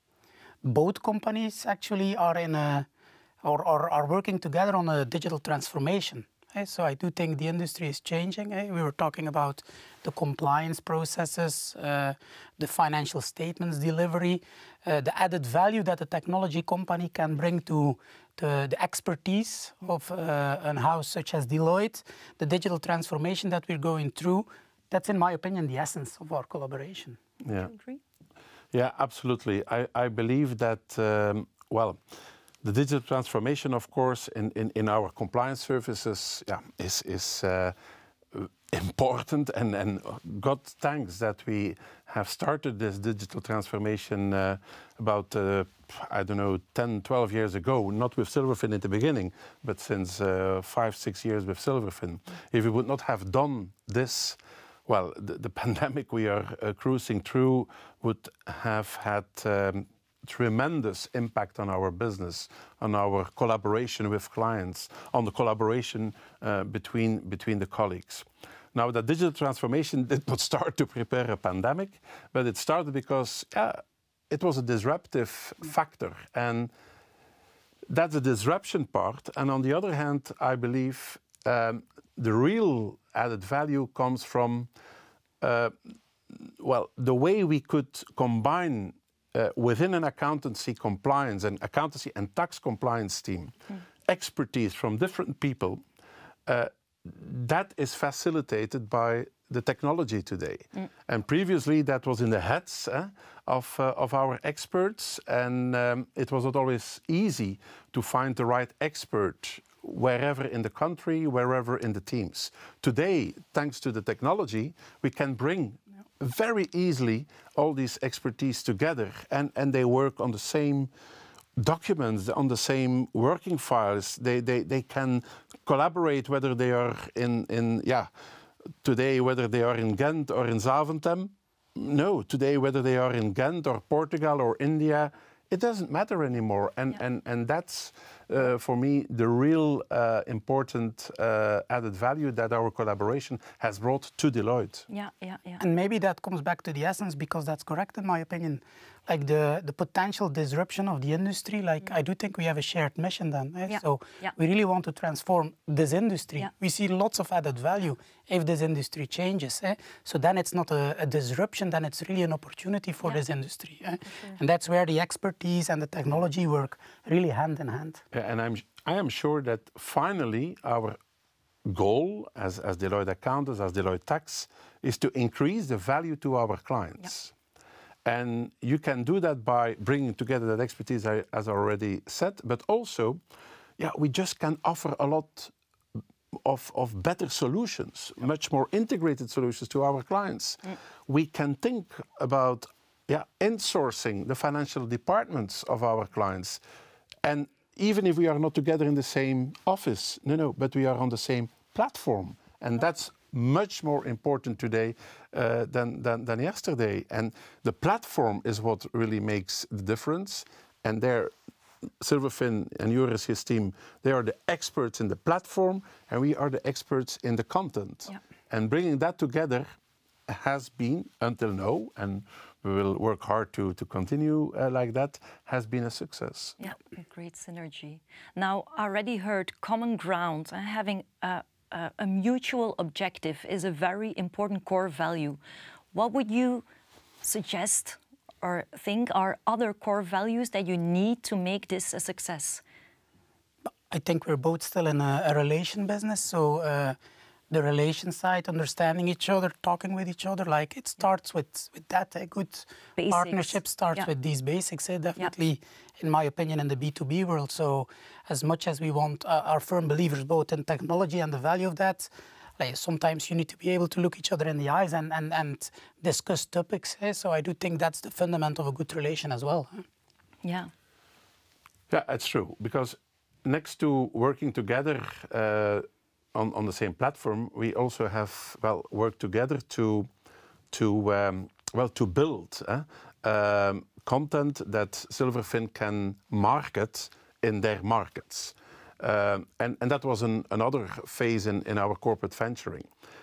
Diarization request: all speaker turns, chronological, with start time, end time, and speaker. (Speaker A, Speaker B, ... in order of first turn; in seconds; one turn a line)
Speaker A: 0.6-2.9
Speaker A: 3.4-27.2
Speaker B: 27.4-27.7
Speaker C: 27.5-28.0
Speaker B: 28.7-32.0
Speaker B: 32.6-37.8
Speaker B: 38.3-76.7
Speaker B: 77.9-84.7
Speaker B: 85.4-85.7
Speaker B: 86.6-93.5
Speaker B: 94.1-95.8
Speaker B: 96.5-120.9
Speaker B: 121.6-128.1
Speaker B: 128.8-144.9
Speaker C: 144.9-145.6
Speaker A: 145.6-168.0
Speaker C: 153.7-154.3
Speaker B: 168.1-171.0
Speaker B: 171.6-177.3
Speaker B: 178.0-183.2
Speaker B: 183.8-185.5
Speaker B: 186.4-196.6
Speaker B: 197.2-211.3
Speaker B: 212.0-219.7
Speaker B: 220.3-226.6
Speaker C: 226.6-235.4
Speaker C: 235.9-236.6
Speaker C: 237.2-242.6
Speaker A: 243.9-247.0
Speaker A: 247.5-269.8
Speaker C: 253.0-254.0
Speaker C: 270.4-270.7
Speaker B: 271.9-280.1
Speaker B: 280.7-292.9